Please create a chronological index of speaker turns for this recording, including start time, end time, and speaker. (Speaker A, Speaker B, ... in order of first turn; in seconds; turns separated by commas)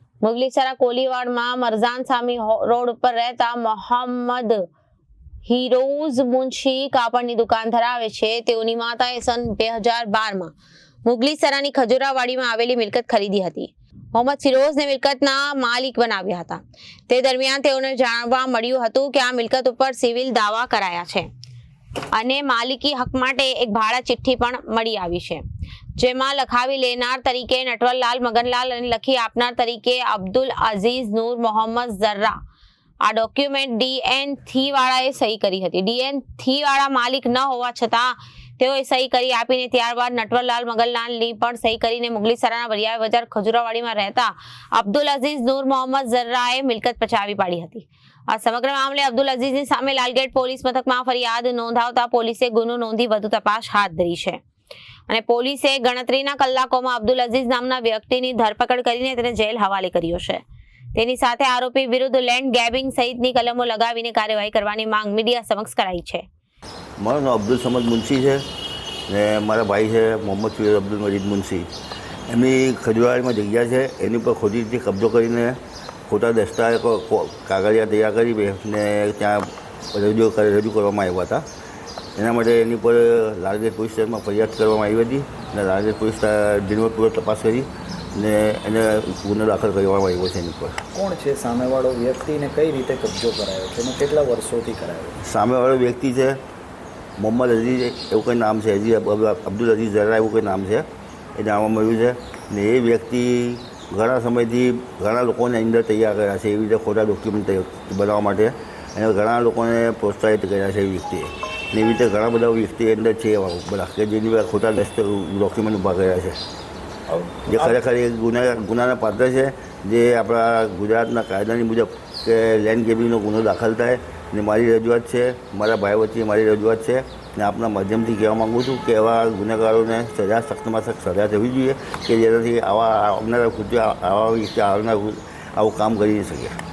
Speaker A: 0.2-4.7, Speaker A: 5.5-10.5, Speaker A: 11.1-21.3, Speaker A: 22.1-25.4, Speaker A: 26.0-32.4, Speaker A: 33.0-54.4, Speaker A: 55.1-60.4, Speaker A: 61.0-66.2, Speaker B: 67.0-68.4, Speaker B: 69.1-71.7, Speaker B: 72.3-75.6, Speaker B: 76.1-81.5, Speaker B: 82.2-90.8, Speaker C: 90.9-95.2, Speaker B: 95.2-96.4, Speaker B: 97.2-100.8, Speaker B: 101.4-116.4, Speaker C: 117.1-117.7, Speaker B: 117.5-136.5